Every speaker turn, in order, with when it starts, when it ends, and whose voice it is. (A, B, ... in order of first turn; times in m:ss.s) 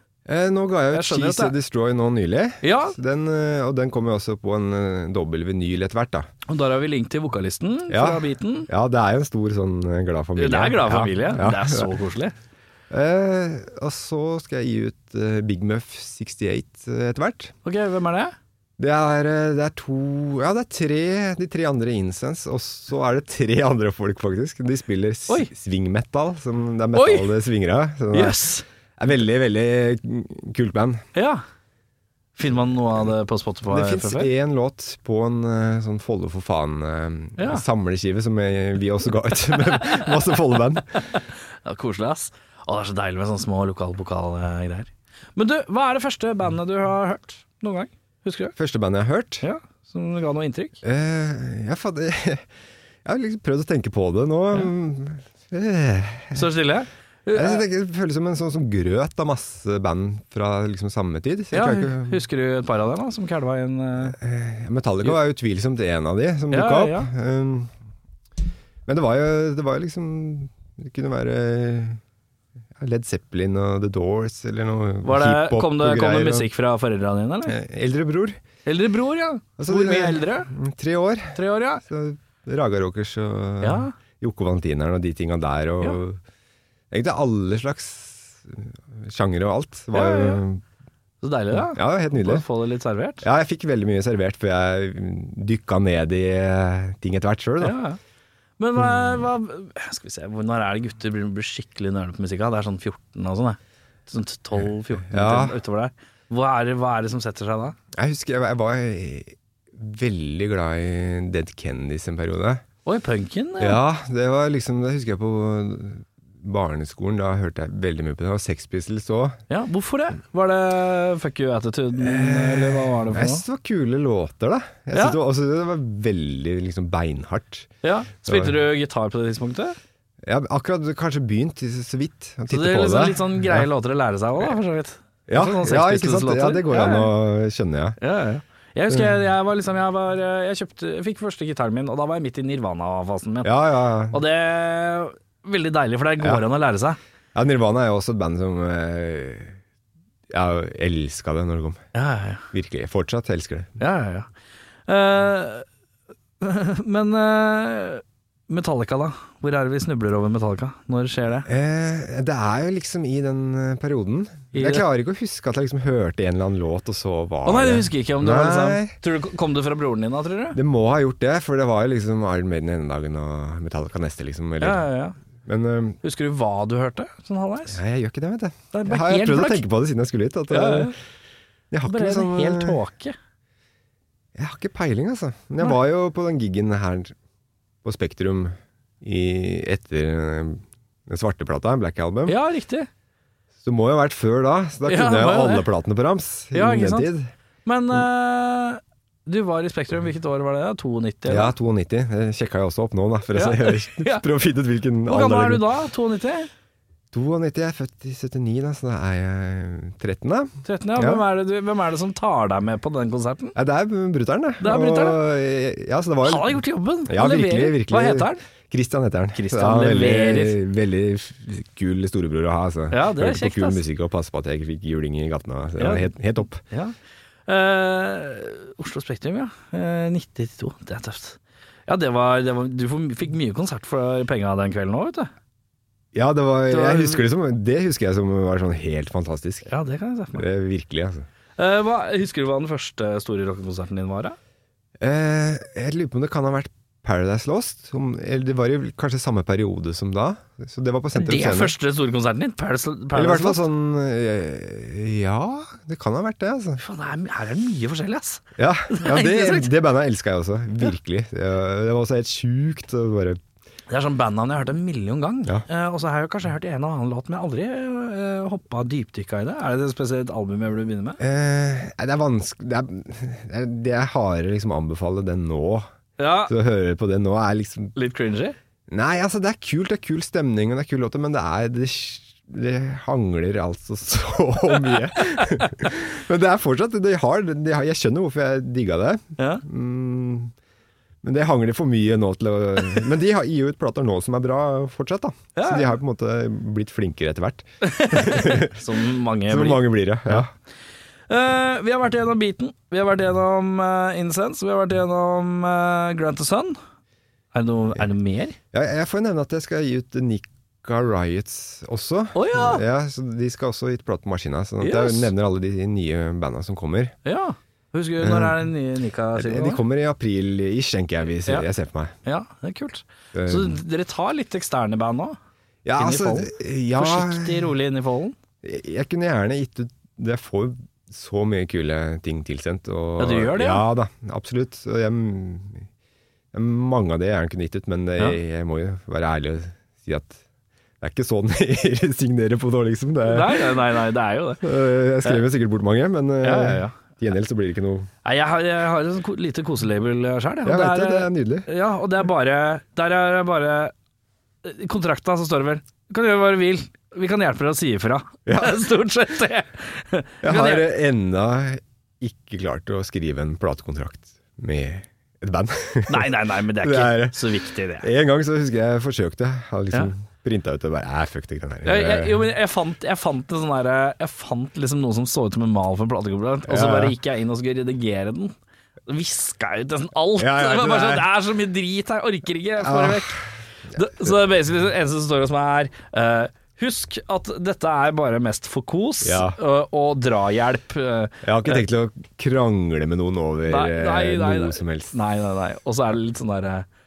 0:00.2-0:06.3 A
0:00.9-0:01.5 B
0:02.6-0:03.0 B
0:06.5-0:08.7 B
0:07.9-0:11.9 A
0:10.4-0:12.3 B
0:12.9-0:17.5 A
0:17.6-0:18.3 B
0:18.8-0:28.5 A
0:26.9-0:27.3 B
0:28.1-0:28.6 B
0:29.0-0:31.0 A
0:31.1-0:31.4 B
0:32.4-0:34.3 B
0:33.7-0:41.0 A
0:37.4-0:37.6 B
0:39.6-0:40.1 B
0:40.9-0:48.5 B
0:48.6-0:49.4 A
0:49.4-0:50.8 B
0:50.8-0:52.5 A
0:53.0-0:56.5 A
0:56.3-0:57.6 B
0:57.3-1:02.2 A
1:01.5-1:04.2 B
1:04.0-1:07.7 A
1:06.5-1:07.1 B
1:08.8-1:12.0 A
1:12.8-1:16.5 A
1:15.0-1:17.6 B
1:17.4-1:18.4 A
1:18.6-1:20.5 B
1:19.6-1:26.2 A
1:21.3-1:21.8 B
1:23.6-1:23.9 B
1:26.9-1:30.6 A
1:29.9-1:30.4 B
1:31.2-1:33.2 B
1:31.5-1:32.4 A
1:33.2-1:37.7 A
1:37.6-1:38.0 B
1:38.6-1:47.8 B
1:45.0-1:45.6 A
1:47.9-1:52.6 A
1:52.8-1:53.8 B
1:53.6-1:59.4 A
1:59.5-2:03.4 B
2:02.0-2:07.7 A
2:04.9-2:05.2 B
2:07.8-2:09.8 B
2:08.2-2:08.6 A
2:10.2-2:13.7 A
2:12.5-2:17.1 B
2:15.3-2:18.0 A
2:18.0-2:23.5 B
2:23.4-2:24.2 A
2:24.1-2:27.0 B
2:27.3-2:29.6 A
2:30.3-2:31.8 A
2:31.9-2:32.5 B
2:32.5-2:33.7 A
2:33.8-2:34.3 B
2:34.9-2:35.6 B
2:36.4-2:41.5 B
2:41.4-2:48.9 A
2:44.5-2:44.8 B
2:47.4-2:50.6 B
2:50.5-2:54.8 A
2:54.6-2:55.2 B
2:55.4-2:56.0 A
2:56.0-2:57.8 B
2:57.7-3:00.9 A
2:58.7-2:59.6 B
3:00.5-3:00.9 B
3:01.7-3:02.8 A
3:01.9-3:03.2 B
3:04.3-3:07.1 A
3:07.8-3:12.4 A
3:12.3-3:12.9 B
3:13.6-3:17.3 A
3:14.8-3:15.6 B
3:16.5-3:17.1 B
3:17.6-3:21.5 B
3:21.3-3:25.6 A
3:23.3-3:24.2 B
3:25.1-3:26.5 B
3:27.1-3:31.2 A
3:30.6-3:33.6 B
3:33.5-3:46.6 A
3:34.6-3:35.2 B
3:36.2-3:38.4 B
3:39.3-3:40.6 B
3:42.9-3:43.8 B
3:45.8-3:46.1 B
3:46.6-3:46.9 B
3:47.5-3:55.3 B
3:56.1-3:59.7 A
3:56.7-3:57.2 B
3:59.7-4:00.4 B
4:00.3-4:01.2 A
4:01.6-4:04.4 B
4:05.0-4:11.7 A
4:11.2-4:13.6 B
4:13.1-4:16.8 A
4:16.8-4:19.7 B
4:18.6-4:23.4 A
4:23.9-4:31.2 B
4:31.2-4:35.9 A
4:36.2-4:36.5 B
4:36.5-4:37.9 A
4:37.9-4:38.6 B
4:38.9-4:50.5 A
4:49.4-4:49.6 B
4:51.2-4:58.9 A
4:55.5-4:55.9 B
4:57.8-5:00.5 B
4:59.5-5:00.5 A
5:01.3-5:06.8 B
5:07.5-5:08.6 B
5:08.7-5:17.1 A
5:12.3-5:12.8 B
5:14.8-5:15.3 B
5:17.2-5:19.8 B
5:18.2-5:18.6 A
5:19.3-5:22.1 A
5:22.2-5:25.4 B
5:23.3-5:23.8 A
5:25.8-5:27.7 A
5:26.0-5:28.4 B
5:28.6-5:35.8 A
5:33.2-5:33.8 B
5:36.5-5:40.4 A
5:41.0-5:43.8 A
5:43.2-5:44.7 B
5:44.6-5:48.1 A
5:46.4-5:47.0 B
5:48.2-5:53.9 B
5:50.6-5:51.7 A
5:54.6-6:00.9 B
5:58.4-5:58.8 A
6:00.4-6:12.4 A
6:06.1-6:08.1 B
6:11.8-6:18.5 B
6:16.6-6:17.2 A
6:19.1-6:31.8 B
6:20.4-6:21.3 A
6:22.8-6:23.4 A
6:24.0-6:24.3 A
6:29.2-6:29.6 A
6:31.4-6:35.1 A
6:33.7-6:36.8 B